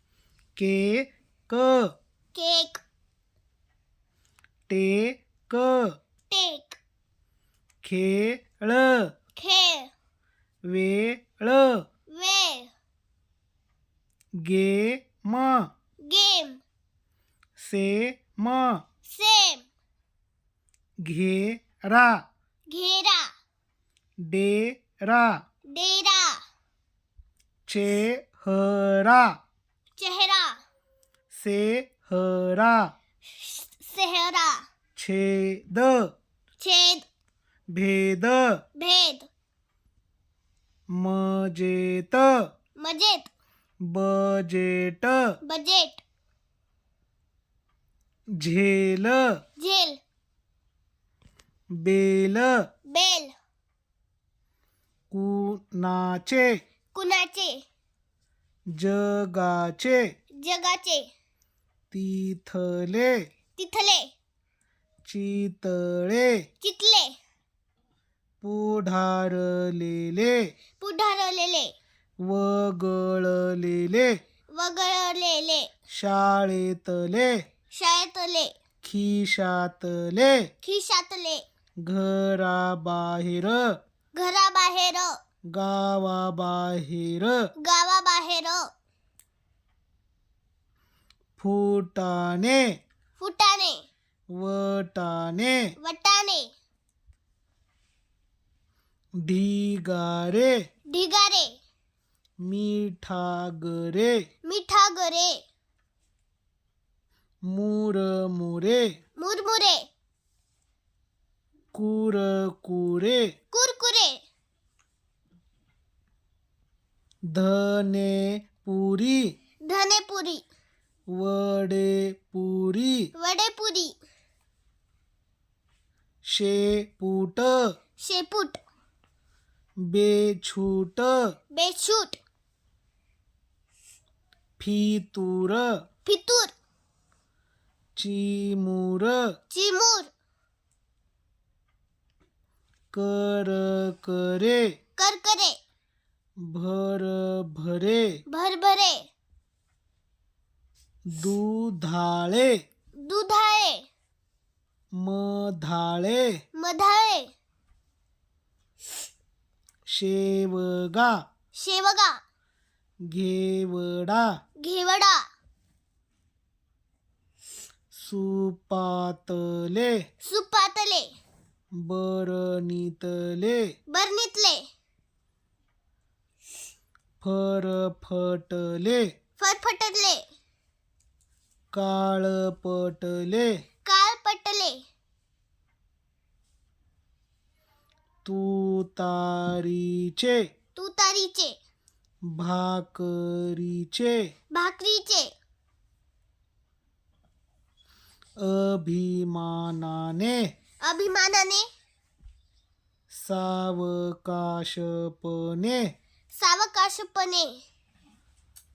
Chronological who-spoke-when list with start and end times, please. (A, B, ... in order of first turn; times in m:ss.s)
0:00.6-0:01.9 A
0:02.4-0:02.8 B
0:04.7-0:06.0 A
0:06.3-0:06.8 B
0:07.8-0:09.1 A
0:09.4-0:09.9 B
0:10.7-0:11.8 A
0:12.1-0:12.7 B
0:14.4-0:15.7 A
0:16.0-0:16.6 B
0:17.6-0:18.8 A
0:19.1-0:19.7 B
0:21.0-0:22.2 A
0:22.7-0:23.3 B
0:24.2-0:25.4 A
0:25.7-0:26.4 B
0:27.7-0:29.4 A
0:30.0-0:30.6 B
0:31.3-0:32.9 A
0:33.3-0:34.6 B
0:35.0-0:36.1 A
0:36.6-0:37.0 B
0:37.7-0:38.6 A
0:38.8-0:39.3 B
0:41.0-0:42.3 A
0:42.8-0:43.3 B
0:43.9-0:45.2 A
0:45.4-0:46.0 B
0:48.4-0:49.2 A
0:49.6-0:50.0 B
0:51.8-0:52.5 A
0:52.9-0:53.3 B
0:55.1-0:56.5 A
0:56.9-0:57.6 B
0:58.8-1:00.0 A
1:00.4-1:01.1 B
1:01.9-1:03.1 A
1:03.6-1:04.1 B
1:05.1-1:06.3 A
1:06.6-1:07.1 B
1:08.4-1:10.5 A
1:10.8-1:11.7 B
1:12.3-1:14.2 A
1:14.5-1:15.7 B
1:15.9-1:17.3 A
1:17.7-1:18.5 B
1:18.8-1:20.5 A
1:20.6-1:21.4 B
1:21.8-1:23.8 A
1:24.2-1:25.1 B
1:25.5-1:27.4 A
1:27.6-1:28.7 B
1:31.4-1:32.6 A
1:33.2-1:33.8 B
1:34.4-1:35.7 A
1:35.8-1:36.5 B
1:39.3-1:40.5 A
1:40.9-1:41.5 B
1:42.4-1:44.2 A
1:44.4-1:45.4 B
1:47.5-1:48.9 A
1:49.2-1:49.8 B
1:51.7-1:53.3 A
1:53.5-1:54.2 B
1:57.3-1:59.2 A
1:59.6-2:00.4 B
2:01.2-2:03.1 A
2:03.1-2:03.9 B
2:06.3-2:07.6 A
2:08.0-2:08.6 B
2:09.9-2:11.2 A
2:11.5-2:12.2 B
2:14.6-2:15.7 A
2:16.1-2:16.5 B
2:18.0-2:19.2 A
2:19.5-2:20.1 B
2:22.9-2:24.6 A
2:25.0-2:25.6 B
2:26.5-2:28.0 A
2:28.3-2:29.1 B
2:31.1-2:32.6 A
2:33.0-2:33.8 B
2:35.0-2:36.3 A
2:36.6-2:37.3 B
2:39.9-2:41.1 A
2:41.6-2:42.2 B
2:43.1-2:44.3 A
2:44.6-2:45.2 B
2:47.9-2:49.9 A
2:50.2-2:51.1 B
2:51.8-2:53.6 A
2:53.9-2:54.6 B
2:57.2-2:59.0 A
2:59.4-3:00.2 B
3:01.7-3:03.5 A
3:03.8-3:04.8 B
3:08.2-3:10.4 A
3:10.8-3:11.6 B
3:12.3-3:14.2 A
3:14.5-3:15.3 B
3:18.4-3:20.4 A
3:20.8-3:21.7 B
3:23.1-3:25.9 A
3:26.3-3:27.6 B